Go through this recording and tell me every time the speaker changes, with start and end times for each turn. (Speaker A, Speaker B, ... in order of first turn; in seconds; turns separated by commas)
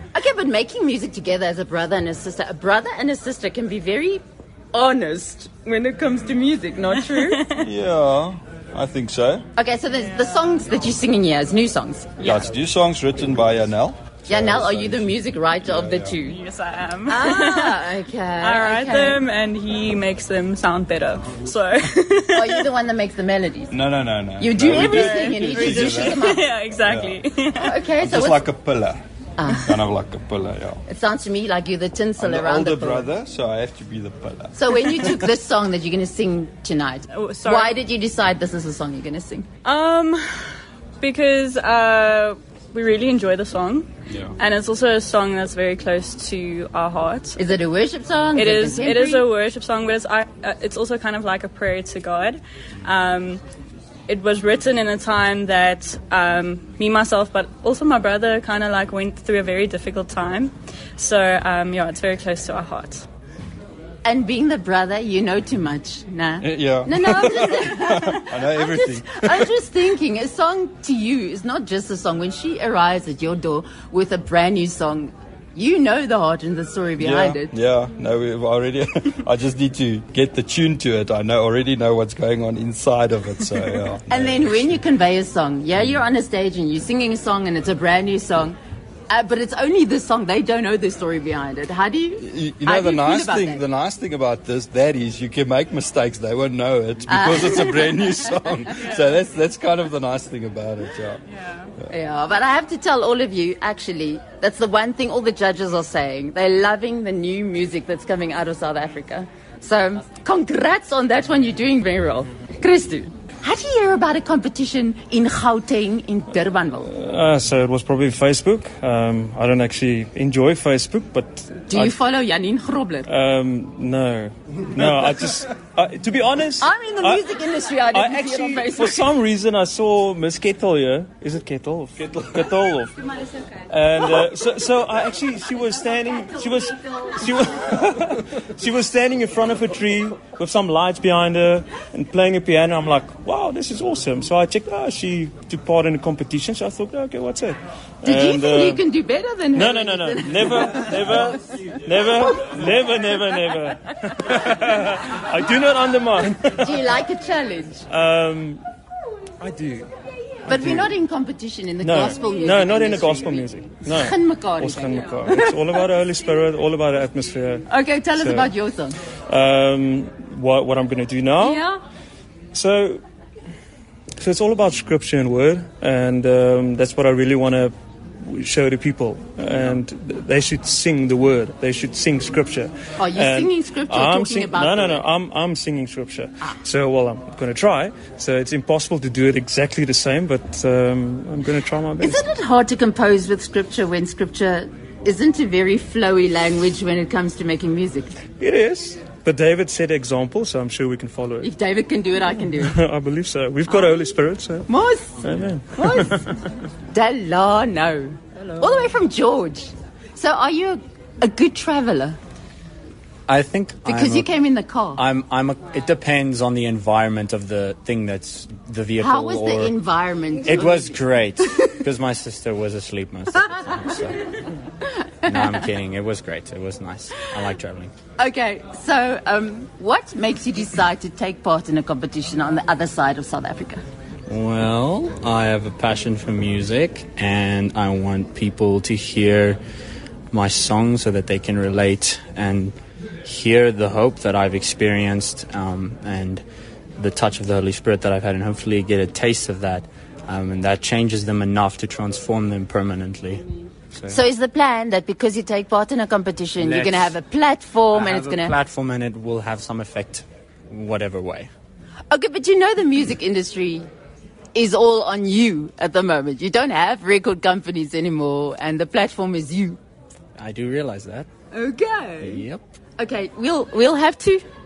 Speaker A: 0.1-7.4, Speaker B: 7.2-7.6, Speaker C: 7.6-9.4, Speaker A: 9.6-12.1, Speaker B: 12.2-12.5, Speaker C: 12.2-16.1, Speaker A: 14.3-16.4, Speaker B: 16.2-22.7, Speaker A: 17.1-19.2, Speaker A: 22.3-23.7, Speaker C: 23.7-27.2, Speaker A: 24.4-26.4, Speaker B: 24.9-27.6, Speaker A: 27.6-28.4, Speaker C: 28.0-30.8, Speaker A: 29.4-29.7, Speaker A: 30.9-33.1, Speaker C: 32.2-35.1, Speaker A: 34.5-39.5, Speaker B: 37.1-37.8, Speaker B: 39.6-47.4, Speaker C: 44.1-44.3, Speaker A: 47.4-49.2, Speaker B: 48.3-53.4, Speaker B: 54.1-63.0, Speaker A: 64.0-77.5, Speaker C: 66.4-69.5, Speaker C: 77.0-84.7, Speaker A: 84.1-88.6, Speaker A: 89.1-93.6, Speaker C: 92.2-101.2, Speaker A: 97.1-98.0, Speaker A: 101.9-116.9, Speaker D: 116.9-121.9, Speaker A: 121.7-123.1, Speaker D: 123.0-127.3, Speaker A: 126.6-129.1, Speaker D: 127.9-132.9, Speaker C: 132.0-132.3, Speaker D: 133.7-148.8, Speaker A: 148.0-151.3, Speaker D: 149.5-156.8, Speaker A: 156.6-157.8, Speaker D: 157.9-158.6, Speaker D: 159.4-159.9, Speaker D: 160.5-160.9, Speaker A: 160.5-165.8, Speaker D: 161.8-168.5, Speaker A: 167.7-169.0, Speaker D: 169.3-171.7, Speaker D: 172.5-173.0, Speaker D: 174.2-192.2, Speaker A: 183.0-185.0, Speaker A: 192.0-198.2, Speaker D: 198.4-201.5, Speaker A: 201.4-202.8, Speaker D: 202.6-204.7, Speaker A: 203.7-204.1, Speaker A: 204.7-205.2, Speaker D: 205.2-206.3, Speaker A: 205.7-206.2, Speaker A: 206.9-212.2, Speaker E: 213.3-214.3, Speaker A: 213.8-215.0, Speaker E: 214.9-219.7, Speaker A: 219.0-221.0, Speaker E: 220.4-224.3, Speaker A: 224.9-225.6, Speaker E: 225.3-227.9, Speaker A: 228.2-233.8, Speaker E: 234.3-239.6, Speaker E: 240.3-246.4, Speaker E: 247.0-254.2, Speaker A: 254.1-258.5, Speaker E: 256.6-257.1, Speaker E: 257.9-261.5, Speaker A: 262.1-263.9, Speaker A: 264.5-269.8, Speaker E: 270.4-271.3, Speaker A: 271.5-272.4, Speaker E: 272.2-272.6, Speaker A: 273.0-274.4